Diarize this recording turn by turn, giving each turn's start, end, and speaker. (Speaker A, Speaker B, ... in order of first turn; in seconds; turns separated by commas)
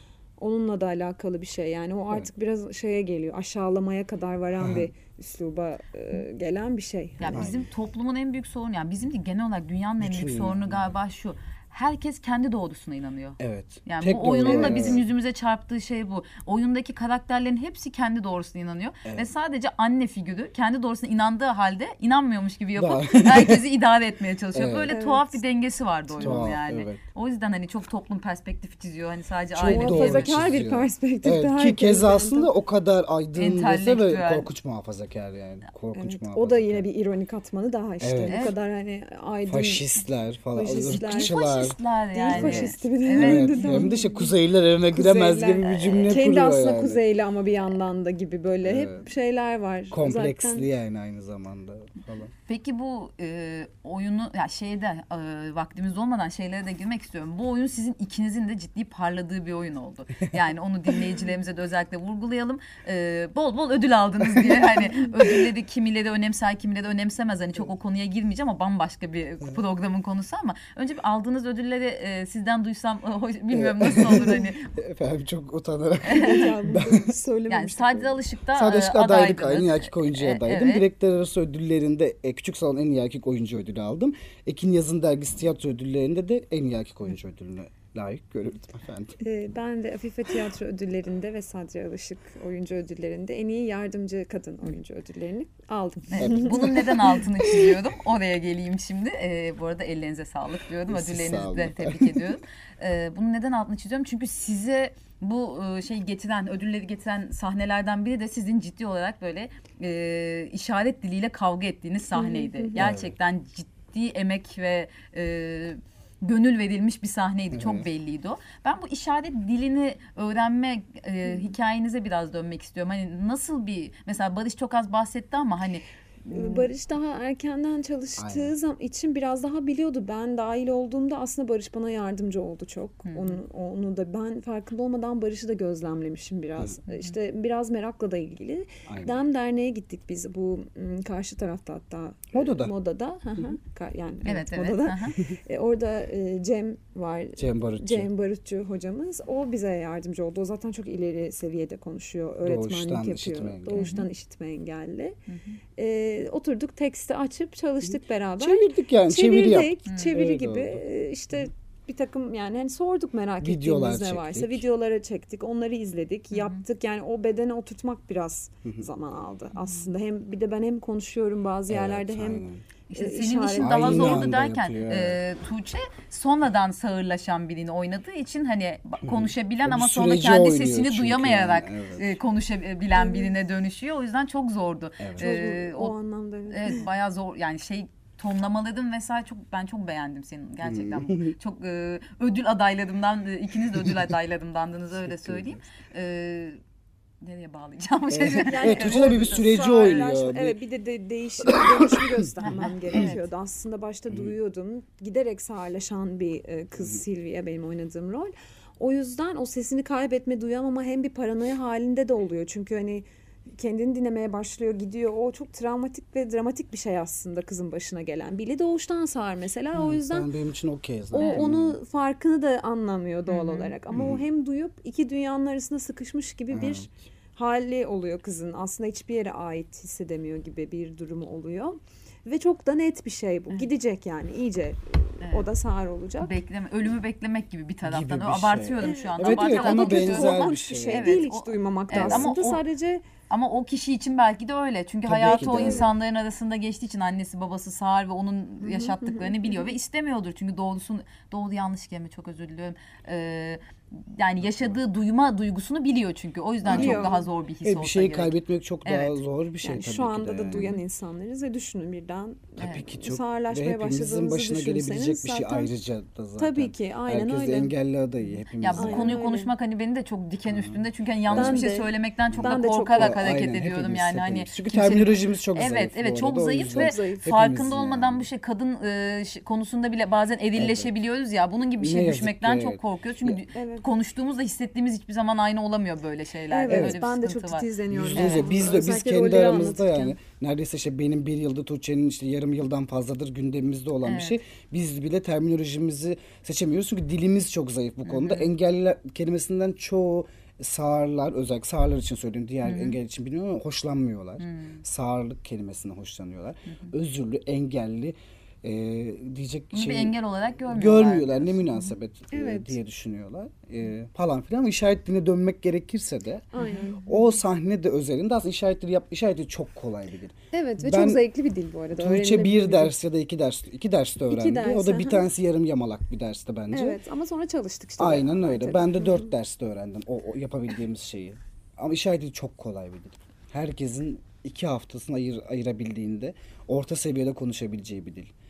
Speaker A: 0.4-7.5, Speaker B: 4.6-4.9, Speaker C: 7.2-30.4, Speaker B: 7.3-7.7, Speaker B: 10.0-10.9, Speaker B: 13.4-15.1, Speaker A: 14.5-15.0, Speaker B: 22.8-23.6, Speaker B: 24.5-24.9, Speaker A: 24.9-25.4, Speaker A: 26.1-26.5, Speaker B: 26.2-27.0, Speaker B: 29.5-36.9, Speaker A: 29.6-32.5, Speaker C: 33.4-34.5, Speaker A: 35.9-39.9, Speaker B: 38.0-38.6, Speaker C: 38.2-38.6, Speaker B: 39.5-41.8, Speaker A: 40.5-41.4, Speaker C: 40.9-43.9, Speaker A: 42.1-44.4, Speaker B: 42.3-47.0, Speaker A: 44.9-50.7, Speaker C: 45.6-46.2, Speaker B: 48.6-49.1, Speaker B: 49.9-52.3, Speaker C: 52.5-74.7, Speaker B: 64.3-64.7, Speaker B: 73.5-77.2, Speaker C: 76.0-76.5, Speaker A: 76.1-78.2, Speaker C: 77.5-80.8, Speaker B: 78.5-89.2, Speaker A: 89.2-97.7, Speaker C: 96.1-126.7, Speaker B: 96.2-96.9, Speaker B: 100.9-102.4, Speaker A: 112.2-112.9, Speaker B: 112.8-113.1, Speaker B: 117.5-117.9, Speaker A: 126.3-155.2, Speaker B: 128.2-128.5, Speaker C: 133.1-133.4, Speaker C: 136.9-137.2, Speaker B: 138.9-139.2, Speaker B: 142.3-142.7, Speaker C: 144.2-145.2, Speaker B: 147.4-148.1, Speaker B: 152.4-153.9, Speaker C: 153.8-154.1, Speaker C: 155.3-155.6, Speaker A: 155.8-174.3, Speaker B: 158.4-160.8, Speaker C: 159.9-160.2, Speaker B: 163.4-164.7, Speaker C: 166.3-166.6, Speaker C: 169.6-169.9, Speaker B: 171.7-172.6, Speaker C: 172.9-185.9, Speaker B: 173.6-175.2, Speaker B: 179.0-182.2, Speaker A: 182.9-183.3, Speaker B: 185.0-185.4, Speaker A: 185.2-186.9, Speaker C: 186.5-196.6, Speaker B: 190.6-191.4, Speaker B: 193.8-194.0, Speaker B: 194.9-195.6, Speaker C: 197.2-199.9, Speaker B: 198.1-200.6, Speaker A: 198.4-220.3, Speaker B: 201.4-202.3, Speaker C: 202.4-203.2, Speaker B: 219.7-221.8, Speaker A: 221.1-236.3, Speaker C: 221.2-221.5, Speaker C: 223.3-223.7, Speaker B: 223.9-224.2, Speaker B: 226.5-226.9, Speaker C: 235.2-235.5, Speaker C: 236.2-242.6, Speaker B: 237.8-241.3, Speaker A: 238.8-243.1, Speaker B: 241.9-242.6, Speaker C: 243.3-259.2, Speaker B: 245.1-245.9, Speaker A: 245.2-245.9, Speaker A: 248.6-249.7, Speaker A: 256.6-257.3, Speaker B: 256.7-257.1, Speaker B: 257.6-260.7, Speaker A: 259.6-265.7, Speaker C: 262.6-262.9, Speaker B: 262.6-269.2, Speaker A: 266.4-267.8, Speaker C: 268.6-288.5, Speaker A: 268.7-269.5, Speaker B: 270.5-271.8, Speaker A: 271.3-273.2, Speaker B: 272.3-278.3, Speaker A: 276.7-277.3, Speaker B: 280.6-280.9, Speaker B: 281.8-283.4, Speaker A: 283.5-283.9, Speaker A: 286.5-290.2, Speaker B: 286.7-287.0, Speaker B: 287.9-310.1, Speaker C: 294.0-294.4, Speaker C: 298.1-298.5, Speaker C: 302.6-303.0, Speaker C: 304.4-304.8, Speaker C: 309.7-311.8, Speaker B: 310.7-316.5, Speaker A: 312.3-312.8, Speaker A: 316.5-317.2, Speaker B: 317.1-321.2, Speaker A: 320.5-323.0, Speaker B: 322.0-327.0, Speaker A: 324.3-325.3, Speaker A: 326.7-329.3, Speaker B: 328.0-338.3